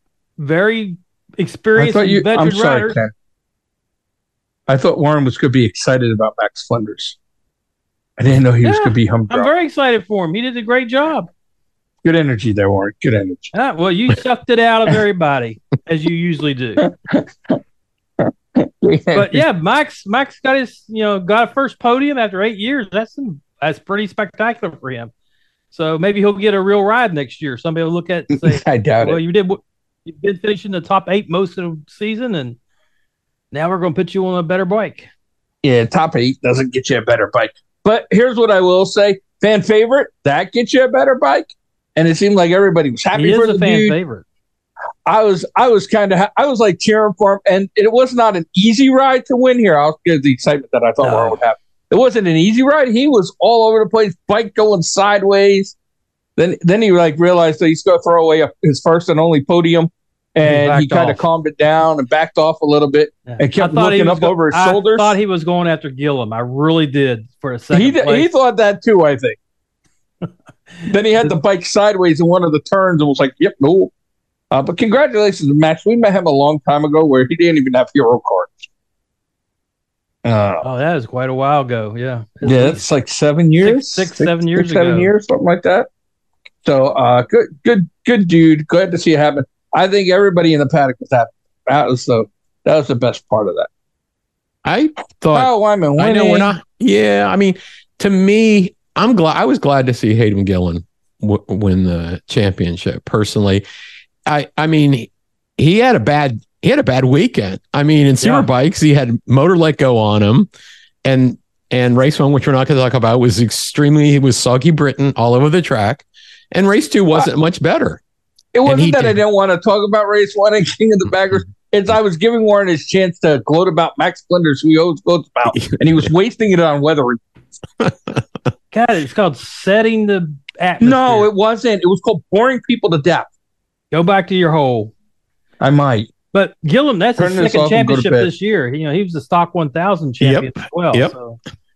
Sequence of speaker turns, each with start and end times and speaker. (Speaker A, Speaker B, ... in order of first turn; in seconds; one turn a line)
Speaker A: 0.4-3.0
Speaker B: 1.7-3.1
Speaker B: 4.7-7.2
Speaker B: 8.2-9.5
Speaker A: 8.6-11.3
Speaker B: 12.0-13.5
Speaker A: 13.5-16.8
Speaker B: 16.8-17.6
Speaker B: 18.2-19.4
Speaker A: 19.1-25.1
Speaker A: 25.7-32.6
Speaker B: 28.3-29.2
Speaker A: 33.5-35.1
Speaker B: 35.6-44.0
Speaker A: 43.1-44.2
Speaker B: 45.1-55.7
Speaker A: 51.0-51.4
Speaker B: 56.4-65.1
Speaker A: 60.4-61.2
Speaker A: 63.3-68.3
Speaker B: 67.7-69.4
Speaker A: 70.8-71.3
Speaker B: 70.9-73.9
Speaker B: 74.5-78.7
Speaker B: 80.2-80.7
Speaker A: 80.6-82.8
Speaker B: 82.4-85.9
Speaker A: 83.6-85.1
Speaker B: 86.6-93.7
Speaker C: 94.6-103.6
Speaker B: 95.3-96.5
Speaker C: 104.3-110.5
Speaker A: 108.2-108.5
Speaker C: 111.0-118.0
Speaker B: 118.5-127.2
Speaker C: 118.6-119.2
Speaker C: 125.5-126.0
Speaker C: 127.8-128.2
Speaker A: 128.7-131.3
Speaker B: 130.8-133.3
Speaker A: 133.9-134.9
Speaker B: 135.6-136.1
Speaker A: 136.3-141.4
Speaker B: 137.2-138.3
Speaker C: 140.2-141.1